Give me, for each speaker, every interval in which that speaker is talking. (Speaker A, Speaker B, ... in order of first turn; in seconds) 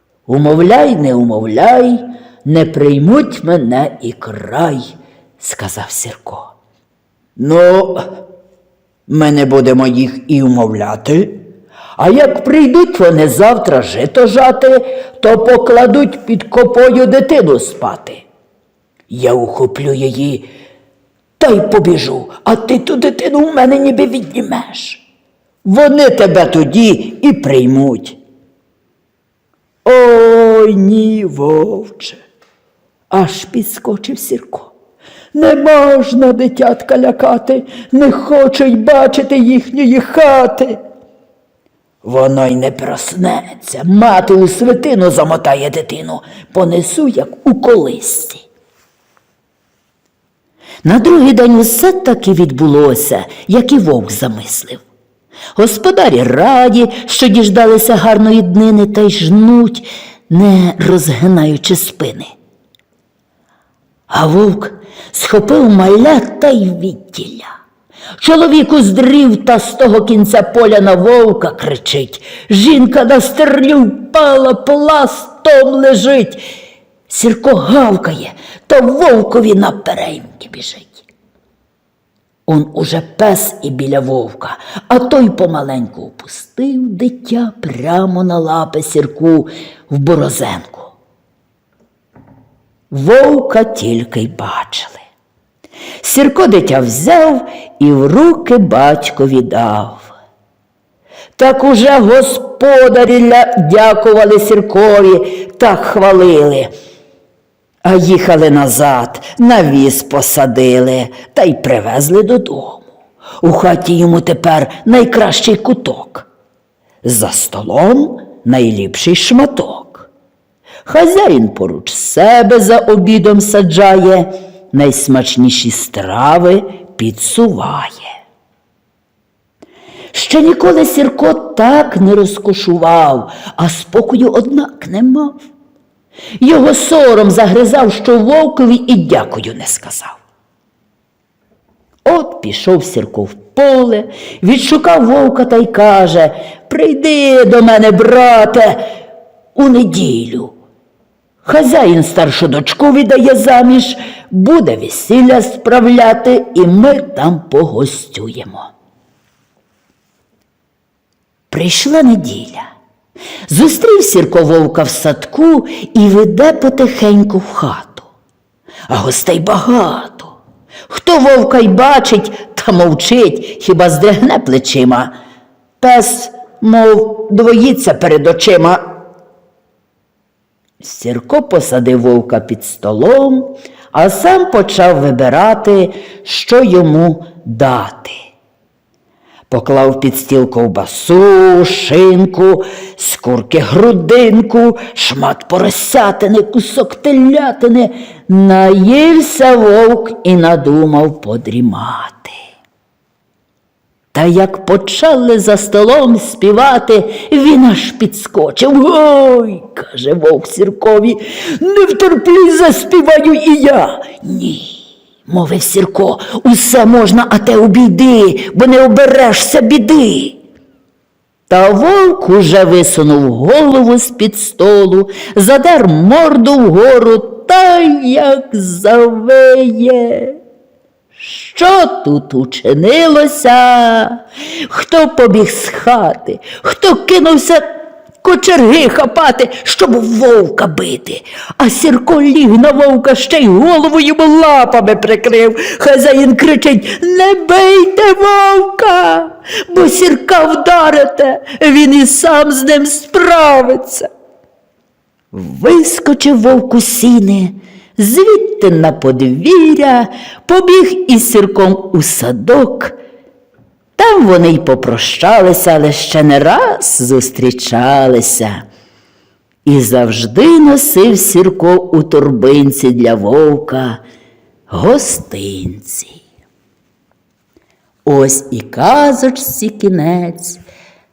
Speaker A: 0.3-6.5, 7.4-8.1, 9.1-11.4, 12.0-18.2, 19.1-20.5, 21.4-25.0, 25.6-28.2, 29.9-32.2, 33.1-34.7, 35.3-40.8, 42.0-48.4, 50.8-54.8, 55.5-62.3, 64.1-67.5, 68.2-76.4, 77.1-81.0, 82.5-90.9, 92.9-95.0, 96.0-100.1, 101.3-106.7, 107.8-112.8, 113.4-116.3, 117.0-120.1, 120.8-128.1, 130.1-135.4, 136.4-140.2, 142.0-148.8, 149.5-150.5, 151.4-158.7, 161.5-162.7, 163.5-168.1, 168.9-170.3, 170.9-175.1, 175.8-178.8, 180.8-188.2, 189.5-202.3, 204.1-220.4, 221.5-230.3, 231.2-237.7, 238.2-254.1, 255.3-262.9, 264.0-268.6, 269.6-274.0, 274.7-276.2, 278.1-280.6